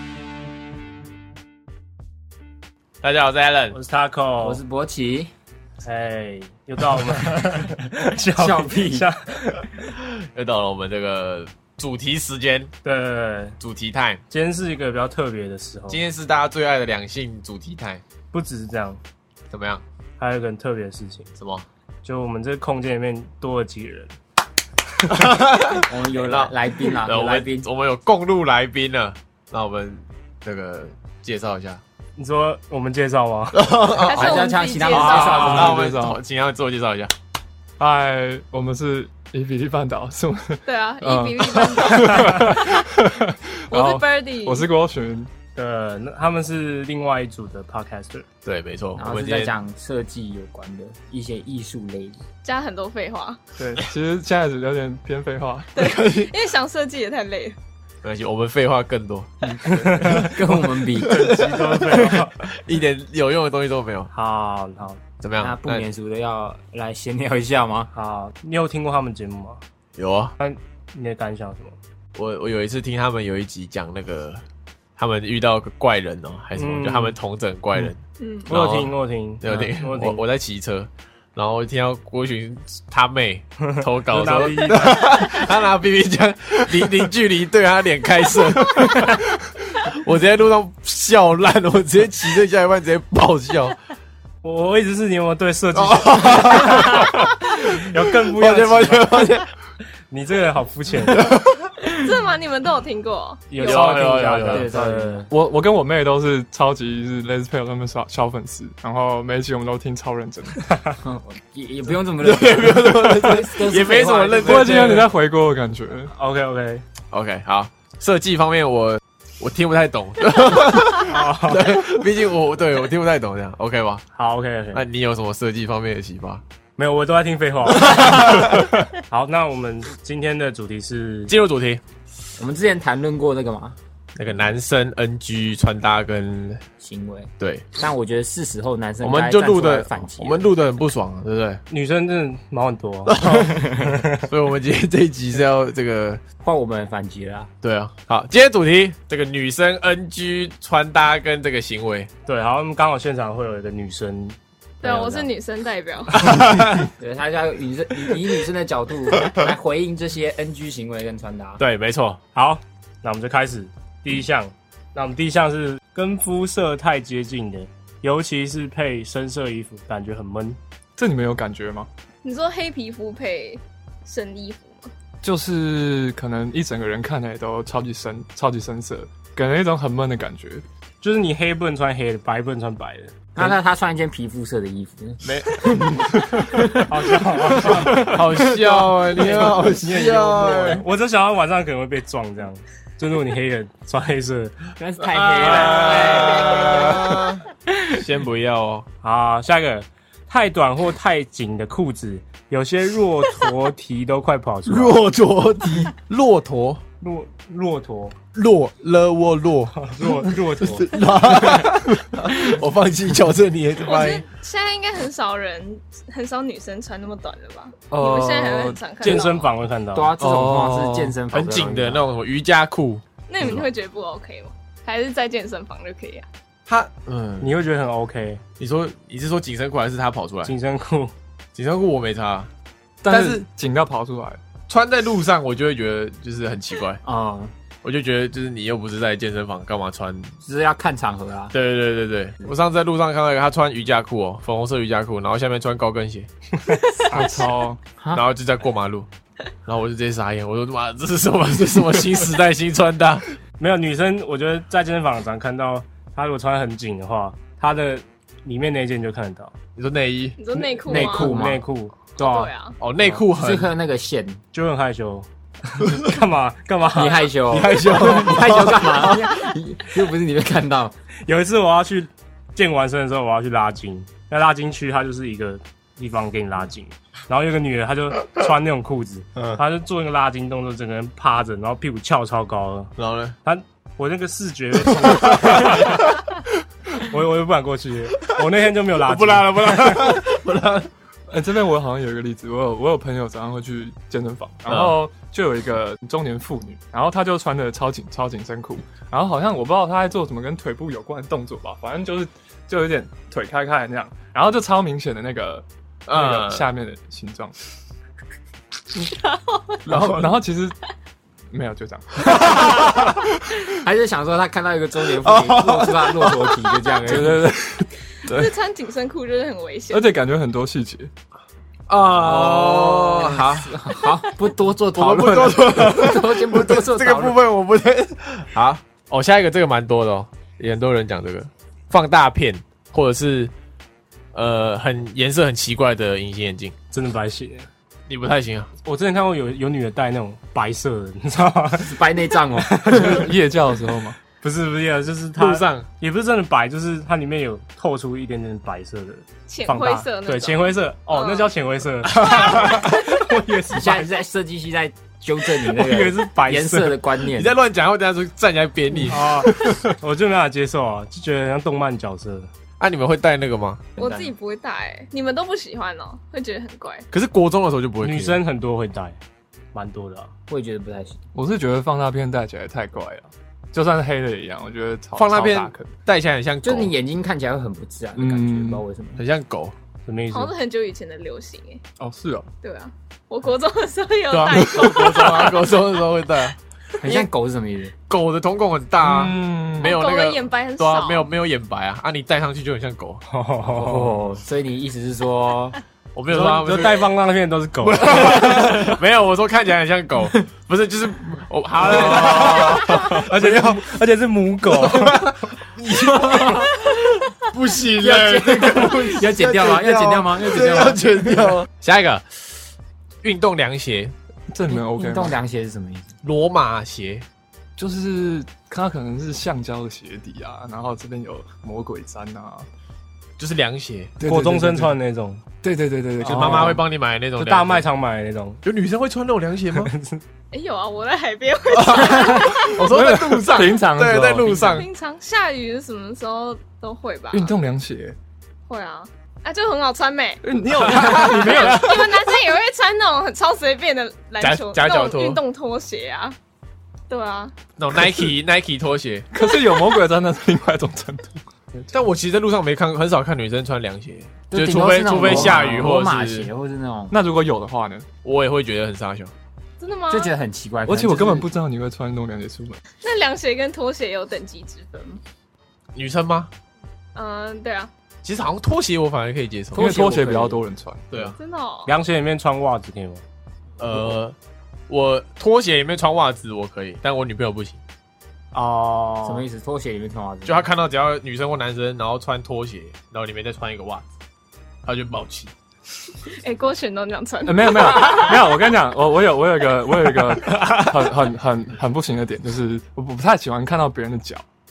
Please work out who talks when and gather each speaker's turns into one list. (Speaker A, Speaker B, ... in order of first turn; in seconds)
Speaker A: 3.0-3.8, 9.9-12.7, 13.6-14.2, 15.9-18.0, 19.5-19.8, 21.4-21.6, 25.1-31.8, 33.5-34.4, 35.0-37.1, 48.5-49.6, 55.8-56.3, 58.0-64.1, 65.2-65.9, 70.0-70.3, 72.2-74.4, 75.0-89.2, 89.8-93.8, 95.7-99.5, 101.1-101.5, 103.6-104.7, 112.2-115.1, 117.1-124.0, 124.7-126.4, 127.8-128.7, 131.3-131.8, 134.2-136.6, 137.4-137.7, 139.0-141.6, 143.1-146.2, 147.6-152.1, 156.2-156.9, 161.6-162.2, 188.0-190.8, 195.1-198.9, 204.7-206.8, 208.3-214.3, 221.3-223.0, 226.7-227.6, 228.6-230.5, 231.6-232.5, 233.1-233.4, 234.7-237.0, 237.8-240.3, 241.5-246.3, 248.1-249.1, 249.7-253.3, 259.8-260.4, 262.8-263.7, 267.5-269.4, 279.4-279.6, 283.0-283.4, 284.9-285.9, 289.0-290.9, 294.7-295.0, 306.1-306.7, 309.9-310.3, 315.2-316.4, 321.9-323.8, 324.9-333.5, 334.3-336.8, 338.1-338.7, 345.4-345.9, 352.2-352.8, 357.2-359.8, 362.8-363.9, 367.1-368.4, 375.2-376.9, 379.2-379.7, 384.3-387.3, 388.1-393.2, 396.1-397.1, 397.8-403.9, 404.8-412.7, 413.2-414.1, 416.2-417.2, 423.4-424.1, 426.2-427.9, 428.6-429.9, 431.7-434.9, 440.8-441.9, 444.4-445.4, 447.8-449.3, 451.9-456.5, 458.2-459.3, 465.9-466.5, 468.2-470.1, 471.1-471.4, 473.8-474.4, 474.9-477.8, 480.4-484.1, 484.8-485.5
Speaker B: 3.7-4.6, 5.8-9.9, 12.8-13.6, 14.3-16.0, 18.3-19.0, 20.2-21.3, 22.0-24.1, 32.2-33.6, 45.6-48.3, 59.7-60.4, 61.0-62.4, 64.1-65.0, 67.9-69.6, 70.4-71.8, 76.5-77.2, 78.5-80.2, 83.6-85.3, 94.4-99.3, 100.1-101.3, 103.5-105.3, 116.1-116.8, 121.1-121.8, 124.2-124.9, 126.8-131.3, 141.7-144.3, 152.3-155.3, 162.3-170.6, 181.0-183.2, 186.8-188.4, 189.1-194.6, 199.0-205.1, 207.0-208.2, 209.8-211.0, 219.0-220.1, 227.4-228.4, 230.4-231.1, 253.6-259.5, 260.9-262.1, 263.0-263.2, 264.5-267.3, 271.3-282.9, 283.4-286.1, 286.9-290.2, 336.9-337.7, 338.8-343.3, 344.4-354.1, 355.7-357.0, 359.1-362.5, 368.0-369.2, 369.7-370.3, 380.1-380.5, 393.3-394.2, 396.3-398.9, 401.9-405.3, 424.2-425.4, 426.3-426.8, 427.4-428.6, 429.8-430.2, 455.2-455.6, 471.9-473.2, 478.5-479.5
Speaker C: 4.4-5.3, 8.4-9.1, 25.8-27.7, 34.1-35.8, 49.0-52.2, 60.0-61.3, 65.4-67.9, 104.5-105.3, 111.0-114.9, 132.4-133.8, 136.8-140.5, 146.4-147.5, 157.0-161.6, 183.3-186.9, 194.8-197.3, 219.9-222.0, 237.0-237.5, 240.4-241.5, 260.9-261.6, 262.2-262.5, 263.3-264.4, 266.9-270.9, 312.4-313.0, 313.6-317.5, 322.2-327.4, 341.8-343.3, 353.7-357.6, 364.0-364.3, 370.5-371.2, 376.6-379.2, 387.0-387.9, 393.7-395.8, 408.0-411.5, 414.7-416.1, 454.5-457.2, 460.1-461.5, 469.7-470.6, 479.2-480.7
Speaker D: 34.0-35.5, 40.7-42.9, 43.7-44.7, 52.4-53.4, 55.8-57.6, 78.2-78.5, 101.8-104.0, 154.8-156.3, 172.2-174.9, 213.8-219.5, 223.3-226.2, 260.4-261.4, 262.2-262.8, 309.4-309.7, 318.2-320.1, 349.5-351.5, 352.1-353.0, 364.0-367.1, 380.3-381.8, 382.6-385.6, 389.8-391.3, 430.5-432.9, 434.5-437.5, 438.7-446.4, 447.1-447.5, 449.5-449.8, 459.8-460.4, 463.0-465.2, 467.1-467.9, 471.4-471.9, 486.2-488.6
Speaker E: 34.2-36.2, 37.8-45.3, 53.6-56.0, 59.5-60.1, 88.7-89.2, 105.3-110.7, 114.5-116.1, 171.0-171.9, 175.2-180.6, 185.8-186.7, 187.7-188.1, 217.9-218.8, 220.2-221.2, 233.0-234.4, 247.1-247.8, 291.3-307.6, 309.9-310.8, 311.5-313.7, 317.0-318.6, 319.9-321.1, 342.9-344.2, 371.3-376.0, 378.2-378.8, 382.0-382.5, 389.0-390.0, 414.5-415.4, 417.8-422.7, 424.2-425.0, 425.6-426.9, 432.2-434.8, 437.3-438.2, 440.4-442.4, 449.3-451.8, 457.1-458.1, 460.9-462.8, 469.7-471.3, 487.5-494.4